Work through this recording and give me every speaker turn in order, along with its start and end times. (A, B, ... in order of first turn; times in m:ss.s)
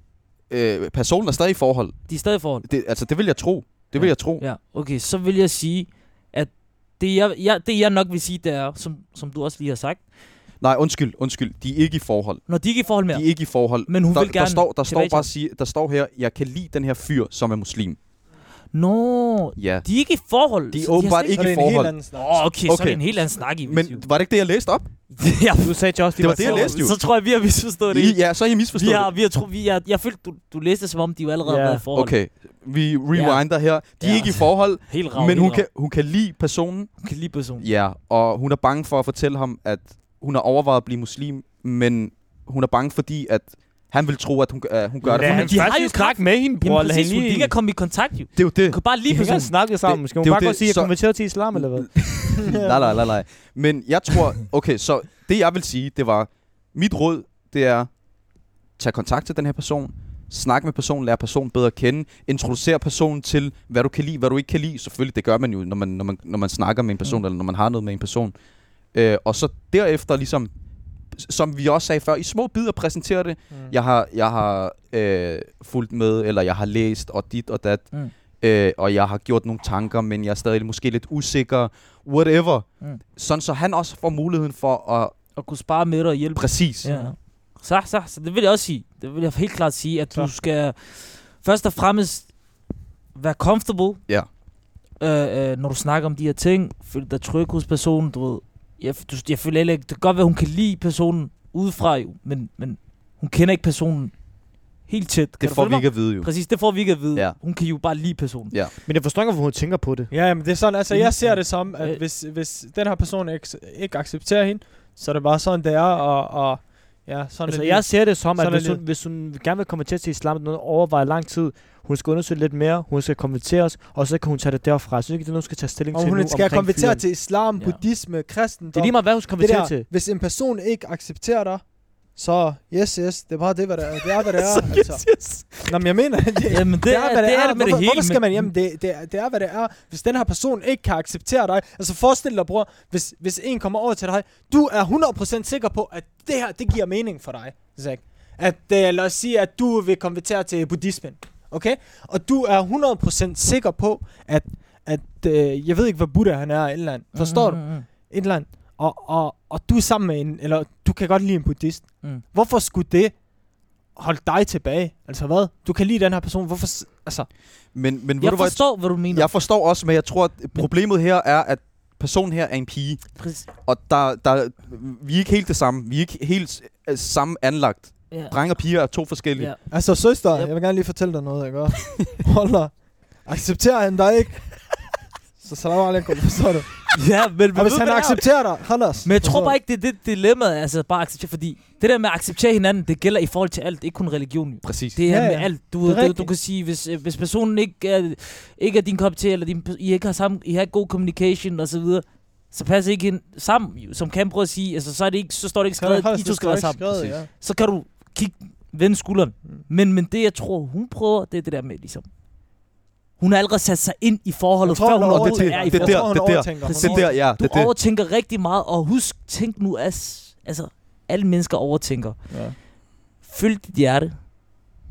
0:00.5-0:04.4 A
0:02.1-0:02.7 B
0:03.9-0:10.0 B
0:10.6-0:12.4 A
0:12.5-0:13.3 B
0:13.1-0:18.0 A
0:13.8-0:15.3 B
0:18.7-0:21.5 B
0:19.6-0:19.9 A
0:20.7-0:21.9 A
0:21.3-0:22.5 C
0:22.1-0:24.0 B
0:22.7-0:23.0 A
0:23.6-0:24.9 A
0:25.1-0:28.2 B
0:25.6-0:26.8 D
0:26.2-0:27.0 A
0:27.9-0:29.1 A
0:28.7-0:32.2 B
0:31.4-0:31.8 D
0:31.9-0:36.9 A
0:33.1-0:35.7 B
0:37.0-0:37.6 B
0:37.6-0:45.7 A
0:45.0-0:47.5 D
0:45.1-0:49.5 B
0:48.4-0:48.8 A
0:49.1-0:51.9 D
0:49.8-0:51.0 A
0:51.5-0:57.9 A
0:52.4-0:52.9 C
0:58.8-1:08.3 A
1:08.9-1:10.5 A
1:11.1-1:25.1 A
1:25.4-1:32.3 B
1:26.4-1:26.9 A
1:33.1-1:34.0 B
1:35.0-1:44.3 B
1:44.8-1:48.5 B
1:45.4-1:46.5 A
1:48.9-1:50.1 D
1:50.1-1:58.8 C
1:50.9-1:52.0 B
1:57.5-2:07.0 D
2:05.9-2:15.1 C
2:08.7-2:09.9 D
2:14.4-2:15.8 B
2:15.6-2:43.2 C
2:16.5-2:18.5 B
2:37.2-2:37.9 B
2:44.0-2:47.3 C
2:47.7-2:59.5 A
2:48.2-2:49.3 B
2:53.2-2:53.5 B
2:58.1-2:58.4 B
2:59.4-2:59.7 B
2:59.7-3:04.7 C
3:05.4-3:06.9 C
3:06.9-3:32.1 B
3:07.6-3:09.6 C
3:14.6-3:15.0 A
3:15.1-3:16.3 C
3:25.8-3:27.3 C
3:33.2-3:42.4 B
3:34.6-3:37.1 C
3:35.1-3:37.7 A
3:35.2-3:35.7 D
3:42.3-3:42.6 C
3:43.2-3:44.3 B